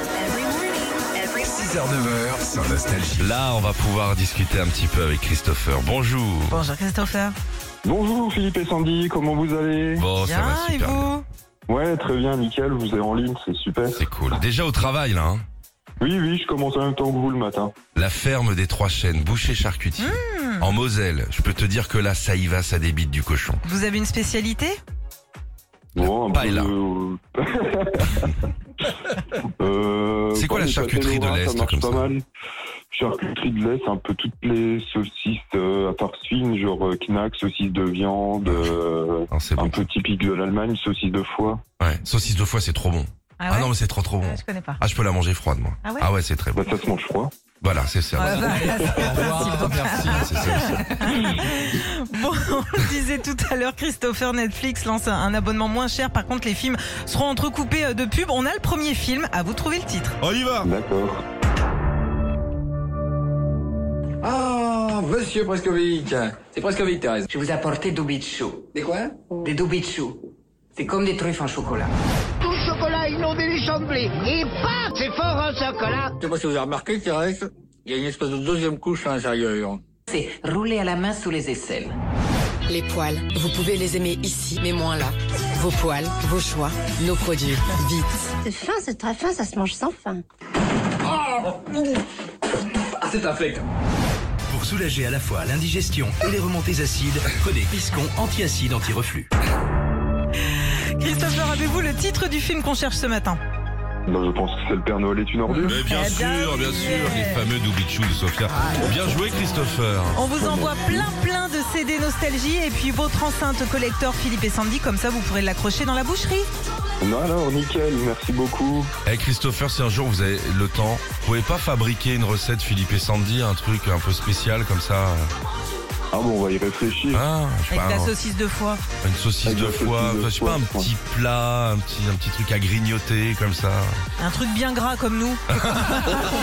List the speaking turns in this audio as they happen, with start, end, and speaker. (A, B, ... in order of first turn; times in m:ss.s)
0:01.4-0:03.3 A
0:03.2-0:06.6 B
0:06.5-0:07.4 C
0:07.8-0:10.1 D
0:10.0-0:11.1 B
0:10.2-0:11.2 C
0:11.7-0:14.0 D
0:13.9-0:15.4 B
0:16.0-0:17.7 D
0:18.0-0:23.6 B
0:20.0-0:20.7 C
0:23.6-0:24.8 C
0:26.0-0:26.7 B
0:26.0-0:28.4 D
0:29.4-0:32.2 D
0:30.4-0:32.1 B
0:32.9-0:41.6 D
0:38.4-0:38.8 B
0:39.3-0:39.9 B
0:41.8-0:46.6 B
0:43.4-0:44.8 C
0:46.6-0:47.3 D
0:47.6-0:51.4 B
0:48.2-1:00.2 C
1:00.2-1:00.7 B
1:00.6-1:01.2 D
1:04.2-1:07.2 E
1:07.3-1:08.8 F
1:08.8-1:09.1 E
1:09.4-1:10.2 F
1:10.8-1:11.9 F
1:12.4-1:16.2 G
1:16.2-1:19.8 E
1:20.1-1:22.0 F
1:22.7-1:28.3 H
1:28.4-1:30.2 G
1:33.0-1:33.6 E
1:34.5-1:39.3 I
1:40.6-1:43.4 C
1:44.1-1:45.8 D
1:45.5-1:47.4 C
1:45.6-1:50.2 B
1:50.2-1:56.5 C
1:50.4-1:51.1 D
1:57.0-1:58.9 D
1:59.0-2:05.3 B
2:06.1-2:07.2 D
2:07.1-2:08.1 B
2:07.7-2:08.8 C
2:09.0-2:13.9 B
2:09.5-2:10.9 D
2:14.2-2:16.3 C
2:15.5-2:16.1 B